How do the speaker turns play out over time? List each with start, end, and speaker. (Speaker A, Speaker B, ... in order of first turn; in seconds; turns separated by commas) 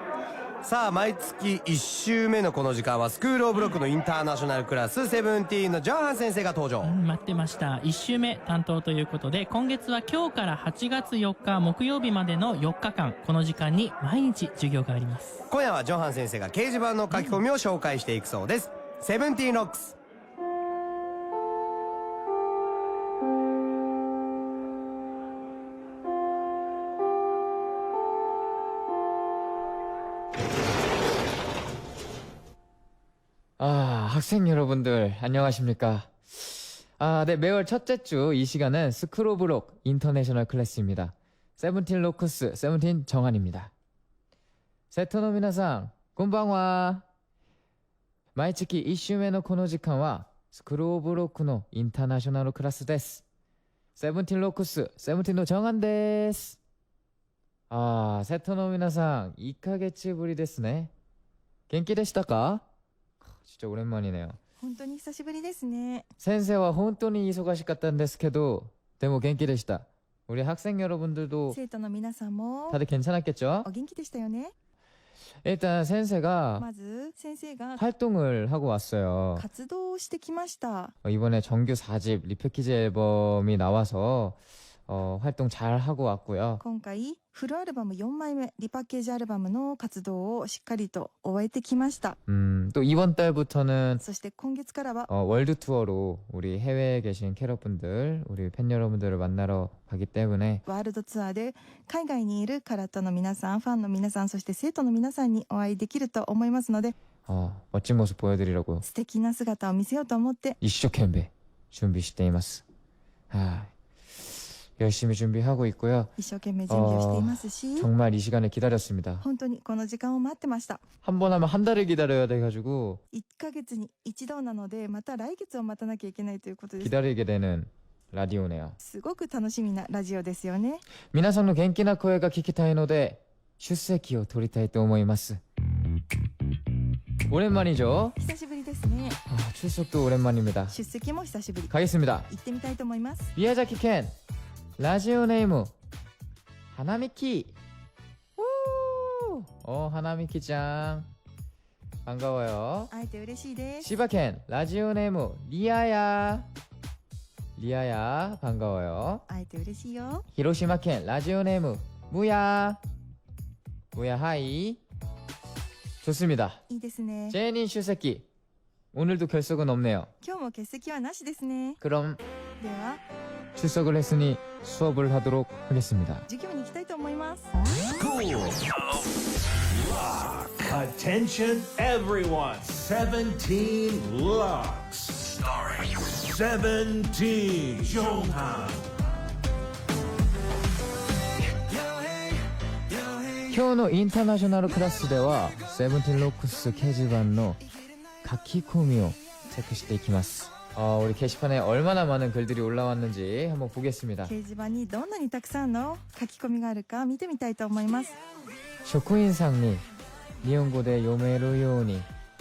Speaker A: 0.6-6.9, Speaker B: 6.8-15.4, Speaker A: 15.5-19.9, Speaker B: 17.1-17.4, Speaker C: 33.6-43.7, Speaker C: 44.9-47.0, Speaker C: 48.3-53.2, Speaker C: 54.0-56.6, Speaker C: 57.7-60.9, Speaker C: 61.7-62.6, Speaker C: 63.4-64.4, Speaker D: 64.6-66.1, Speaker C: 66.2-71.6, Speaker D: 71.5-72.8, Speaker C: 72.7-73.7, Speaker D: 73.6-74.5, Speaker C: 75.4-76.7, Speaker D: 76.6-77.8, Speaker C: 77.8-79.5, Speaker D: 79.3-80.9, Speaker C: 81.0-86.6, Speaker D: 86.6-92.2, Speaker C: 92.3-94.0, Speaker D: 94.0-95.1, Speaker C: 95.1-100.6, Speaker D: 100.7-106.9, Speaker C: 107.2-108.8, Speaker D: 108.8-110.6, Speaker C: 110.6-112.6, Speaker C: 113.3-116.1, Speaker D: 116.2-117.9, Speaker C: 116.7-119.2, Speaker D: 119.2-120.8, Speaker C: 121.0-123.0, Speaker D: 123.1-127.0, Speaker C: 126.8-128.8, Speaker D: 128.8-130.8, Speaker C: 131.1-135.4, Speaker C: 137.3-138.2, Speaker D: 138.2-139.2, Speaker C: 139.3-140.8, Speaker D: 140.7-141.7, Speaker C: 141.7-142.3, Speaker D: 142.2-143.3, Speaker C: 143.3-144.1, Speaker C: 144.8-145.7, Speaker C: 146.7-147.6, Speaker C: 148.4-151.1, Speaker C: 152.0-152.9, Speaker D: 152.9-153.9, Speaker C: 153.8-156.5, Speaker C: 157.6-159.2, Speaker D: 159.3-160.3, Speaker C: 160.3-162.8, Speaker C: 163.9-164.8, Speaker C: 166.0-166.6, Speaker D: 166.7-167.4, Speaker C: 167.3-168.2, Speaker C: 168.9-170.1, Speaker D: 170.2-171.8, Speaker C: 171.8-172.2, Speaker D: 172.6-173.0, Speaker C: 173.6-176.3, Speaker D: 176.3-177.6, Speaker E: 177.9-179.0, Speaker E: 179.7-188.8, Speaker C: 193.5-197.6, Speaker C: 198.2-204.3, Speaker D: 204.2-208.2, Speaker C: 208.8-209.8, Speaker C: 210.4-212.1